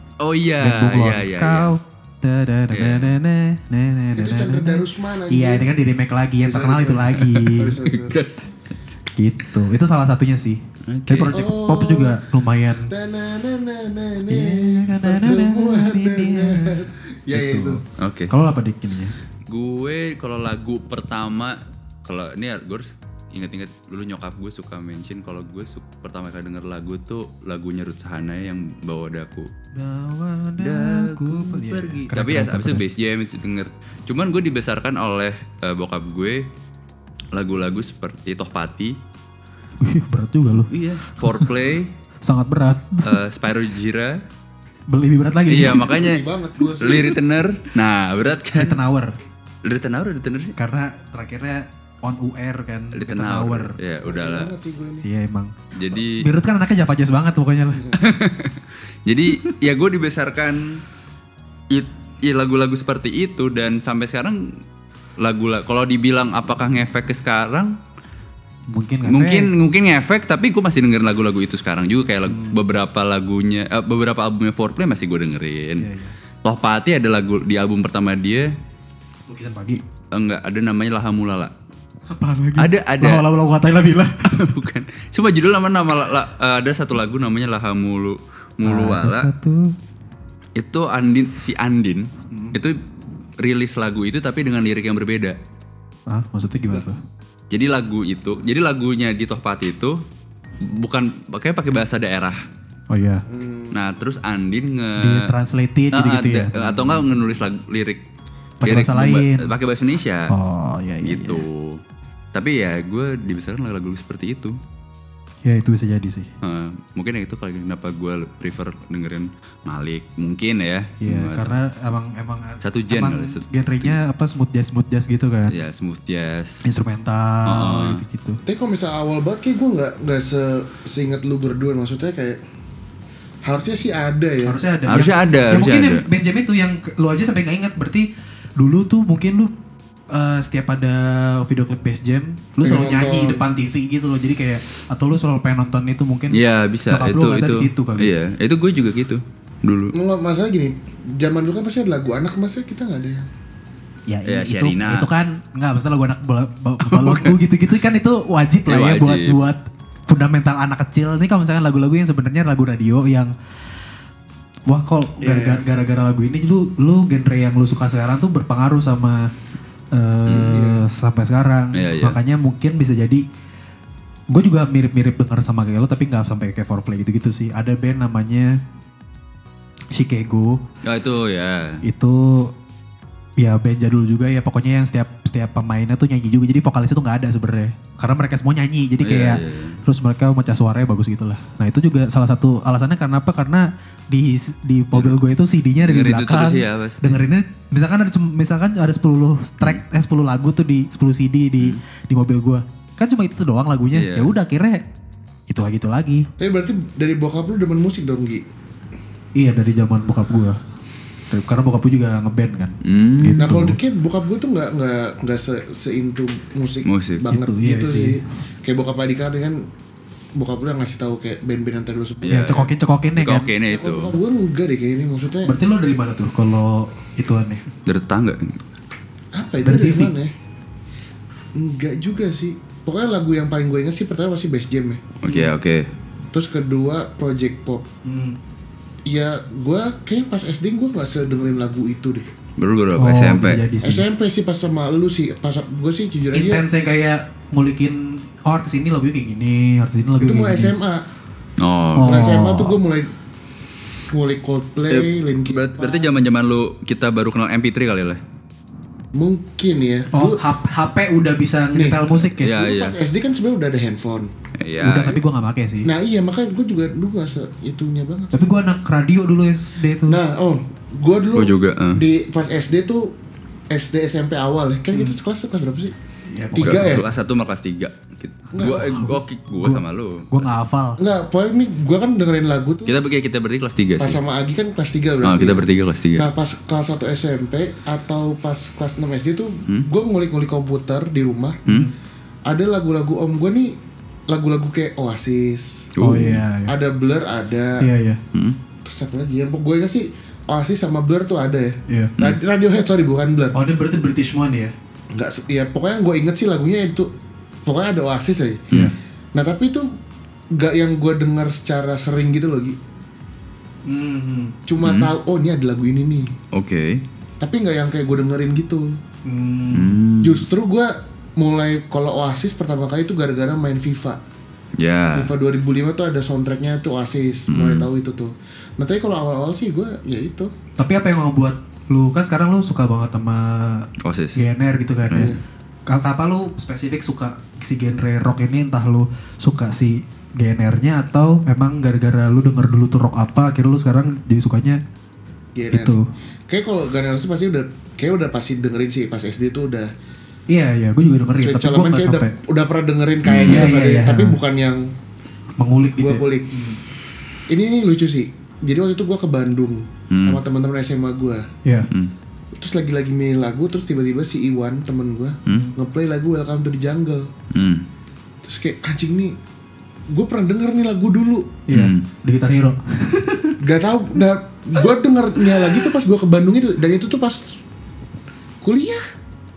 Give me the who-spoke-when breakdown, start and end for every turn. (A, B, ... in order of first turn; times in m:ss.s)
0:00.2-0:01.7 A
0:00.6-0:07.8 B
0:02.7-0:03.1 A
0:04.2-0:05.6 C
0:06.5-0:08.2 C
0:07.2-0:08.5 A
0:09.2-0:12.9 B
0:10.9-0:11.4 A
0:11.3-0:12.2 C
0:12.9-0:17.8 C
0:14.3-0:16.7 B
0:17.3-0:19.2 B
0:18.0-0:18.3 A
0:19.5-0:29.5 A
0:29.8-0:32.8 B
0:30.6-0:36.4 A
0:37.3-0:38.9 A
0:39.8-0:41.5 B
0:40.7-0:41.9 A
0:42.2-0:43.2 B
0:43.0-0:44.2 A
0:44.9-0:46.0 B
0:45.5-0:48.8 A
0:45.9-0:47.2 C
0:48.5-0:49.1 B
0:49.6-0:50.5 A
0:50.6-0:53.8 B
0:52.9-0:54.5 A
0:54.0-0:55.1 C
0:55.0-0:57.9 B
0:55.7-0:56.2 A
0:57.9-1:00.8 A
1:01.7-1:04.5 A
1:05.2-1:07.7 A
1:08.7-1:09.5 B
1:09.0-1:15.9 A
1:12.2-1:12.6 B
1:15.8-1:16.1 B
1:16.4-1:18.5 A
1:19.3-1:19.8 B
1:20.1-1:21.5 A
1:22.1-1:24.5 B
1:22.6-1:23.2 A
1:24.3-1:29.3 A
1:28.6-1:29.7 B
1:30.6-1:32.8 A
1:32.3-1:32.6 B
1:33.4-1:35.4 A
1:36.1-1:37.0 B
1:37.5-1:40.0 A
1:40.6-1:42.4 A
1:42.9-1:43.2 B
1:43.3-1:43.8 C
1:43.7-1:45.3 A
1:45.0-1:47.2 B
1:45.9-1:48.0 A
1:48.6-1:49.5 B
1:48.6-1:50.3 A
1:50.3-1:51.4 B
1:51.0-1:51.8 A
1:52.3-1:54.6 A
1:55.4-1:56.3 B
1:56.4-2:01.5 A
2:01.0-2:05.6 B
2:02.6-2:04.0 A
2:05.5-2:06.6 A
2:06.6-2:08.4 B
2:07.5-2:08.0 A
2:08.4-2:12.4 C
2:13.4-2:14.6 C
2:14.4-2:19.5 B
2:14.8-2:16.0 A
2:20.1-2:28.1 B
2:22.6-2:23.4 C
2:26.3-2:29.9 A
2:29.9-2:33.3 C
2:34.1-2:43.3 B
2:34.2-2:35.1 A
2:36.8-2:37.3 A
2:38.7-2:39.5 A
2:44.7-2:49.3 B
2:45.2-2:45.6 C
2:49.9-2:53.2 B
2:50.2-2:50.6 A
2:50.5-2:50.8 C
2:51.7-2:52.2 A
2:54.3-2:58.6 B
2:59.9-3:00.6 B
3:00.8-3:01.8 A
3:01.8-3:02.5 B
3:03.4-3:24.8 B
3:09.0-3:09.8 A
3:15.8-3:17.2 A
3:23.9-3:24.3 A
3:25.5-3:26.2 B
3:26.4-3:28.4 C
3:29.4-3:30.6 B
3:31.3-3:33.8 B
3:32.8-3:33.4 A
3:33.4-3:39.6 C
3:36.8-3:37.2 A
3:37.3-3:38.1 B
3:40.4-3:42.5 C
3:42.2-3:44.2 A
3:42.3-3:43.5 B
3:43.7-3:45.5 C
3:45.4-3:47.6 B
3:47.8-3:48.6 A
3:49.3-3:50.3 C
3:49.6-3:50.1 B
3:51.6-3:55.0 C
3:55.2-3:55.9 A
3:55.3-3:55.5 B
3:56.3-3:57.8 C
3:58.0-3:58.4 B
3:59.1-4:02.3 C
4:02.6-4:03.6 A
4:03.0-4:04.0 B
4:03.8-4:06.6 C
4:06.3-4:10.7 B
4:10.2-4:11.0 C
4:11.6-4:12.3 A
4:12.0-4:12.8 B
4:12.0-4:13.1 C
4:14.1-4:16.1 C
4:14.9-4:18.2 A
4:19.2-4:20.4 C
4:20.1-4:22.6 B
4:21.7-4:24.3 C
4:22.2-4:22.9 A
4:24.6-4:25.2 A
4:24.8-4:25.9 B
4:25.8-4:28.4 C
4:28.3-4:30.2 B
4:30.1-4:33.1 C
4:31.3-4:32.0 A
4:33.7-4:35.9 C
4:36.3-4:37.0 B
4:36.6-4:40.4 A
4:36.6-4:37.0 C
4:38.5-4:38.8 C
4:38.8-4:41.0 B
4:41.0-4:43.0 C
4:42.8-4:44.2 A
4:44.0-4:45.6 C
4:45.2-4:46.3 A
4:46.2-4:51.6 C
4:51.6-4:51.9 B
4:52.5-4:53.7 C
4:54.3-4:55.9 C
4:56.0-4:56.4 A
4:56.0-4:56.7 B
4:56.6-4:57.8 C
4:57.8-4:58.2 B
4:58.8-5:03.6 C
5:01.9-5:02.1 B
5:03.5-5:04.7 B
5:05.1-5:07.1 C
5:07.6-5:08.6 C
5:09.3-5:09.9 C
5:10.5-5:12.8 C
5:13.8-5:14.6 B
5:14.7-5:16.3 C
5:14.8-5:15.1 A
5:16.5-5:17.0 A
5:17.4-5:19.0 C
5:19.2-5:20.0 B
5:19.7-5:20.4 A
5:20.2-5:24.2 C
5:24.8-5:25.3 A
5:25.1-5:30.5 C
5:27.5-5:27.9 A
5:30.8-5:35.3 B
5:34.0-5:34.4 A
5:35.1-5:35.3 A
5:35.9-5:44.8 B
5:45.6-5:46.0 C
5:45.7-5:46.0 B
5:46.5-5:49.9 C
5:50.5-5:52.4 B
5:51.4-5:54.9 C
5:53.2-5:53.7 A
5:53.4-5:54.4 B
5:55.6-5:56.8 B
5:56.0-5:56.5 C
5:57.5-6:01.4 C
6:00.1-6:00.4 A
6:02.6-6:07.3 C
6:05.5-6:05.7 B
6:07.5-6:07.8 A
6:08.4-6:09.3 C
6:10.1-6:11.5 C
6:11.7-6:13.6 B
6:11.7-6:12.0 A
6:13.6-6:17.5 C
6:18.6-6:19.0 C